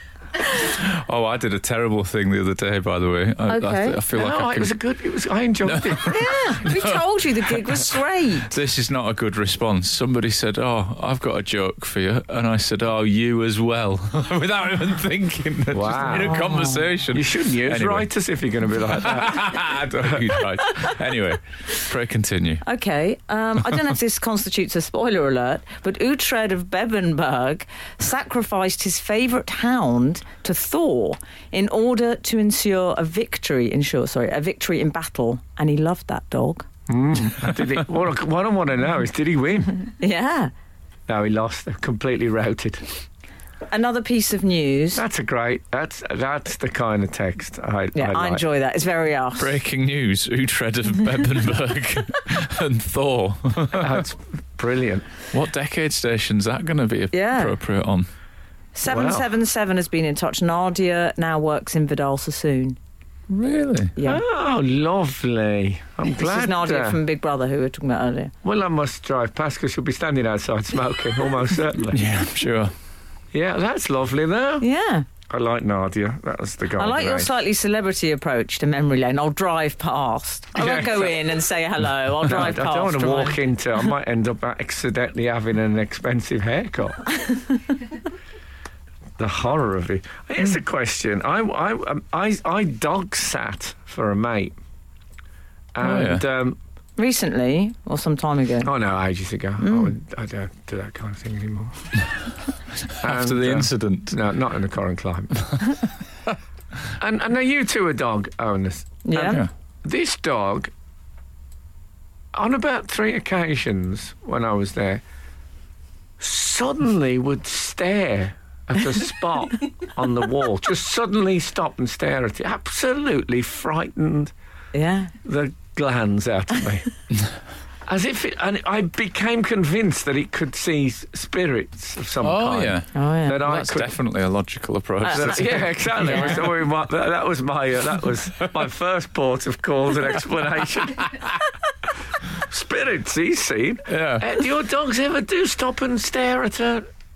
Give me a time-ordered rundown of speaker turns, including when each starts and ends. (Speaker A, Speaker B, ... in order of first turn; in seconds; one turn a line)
Speaker A: 0.5-4.8
Speaker B: 3.5-4.0
Speaker C: 4.1-6.2
Speaker A: 5.6-18.1
Speaker B: 6.1-8.6
Speaker C: 15.7-16.4
Speaker B: 16.1-16.8
Speaker C: 17.1-20.2
Speaker A: 18.9-22.6
Speaker B: 22.6-36.6
Speaker C: 36.9-39.7
Speaker B: 40.0-40.5
Speaker C: 41.1-42.9
Speaker B: 43.7-45.0
Speaker C: 44.9-48.4
Speaker B: 47.9-49.5
Speaker A: 49.4-54.0
Speaker C: 53.7-55.1
Speaker A: 55.3-58.1
Speaker B: 57.1-57.6
Speaker B: 58.7-62.8
Speaker C: 58.9-59.3
Speaker A: 63.3-63.9
Speaker B: 64.0-64.2
Speaker C: 64.0-67.0
Speaker B: 66.2-68.3
Speaker C: 68.4-72.0
Speaker A: 71.9-72.7
Speaker C: 73.3-74.7
Speaker B: 74.6-75.0
Speaker C: 75.3-77.3
Speaker B: 76.8-83.4
Speaker C: 80.5-81.3
Speaker C: 82.2-87.0
Speaker C: 89.2-94.5
Speaker C: 95.7-96.6
Speaker A: 95.8-96.2
Speaker B: 97.0-98.7
Speaker C: 98.6-101.9
Speaker B: 99.6-99.9
Speaker A: 102.9-104.2
Speaker C: 103.0-105.6
Speaker C: 107.0-110.7
Speaker B: 109.0-109.4
Speaker C: 112.3-115.0
Speaker C: 116.2-124.3
Speaker B: 124.7-125.1
Speaker C: 125.2-126.9
Speaker C: 127.9-133.9
Speaker A: 132.2-136.5
Speaker B: 132.9-133.4
Speaker B: 135.0-136.4
Speaker C: 135.1-141.1
Speaker C: 142.4-146.9
Speaker A: 143.9-144.3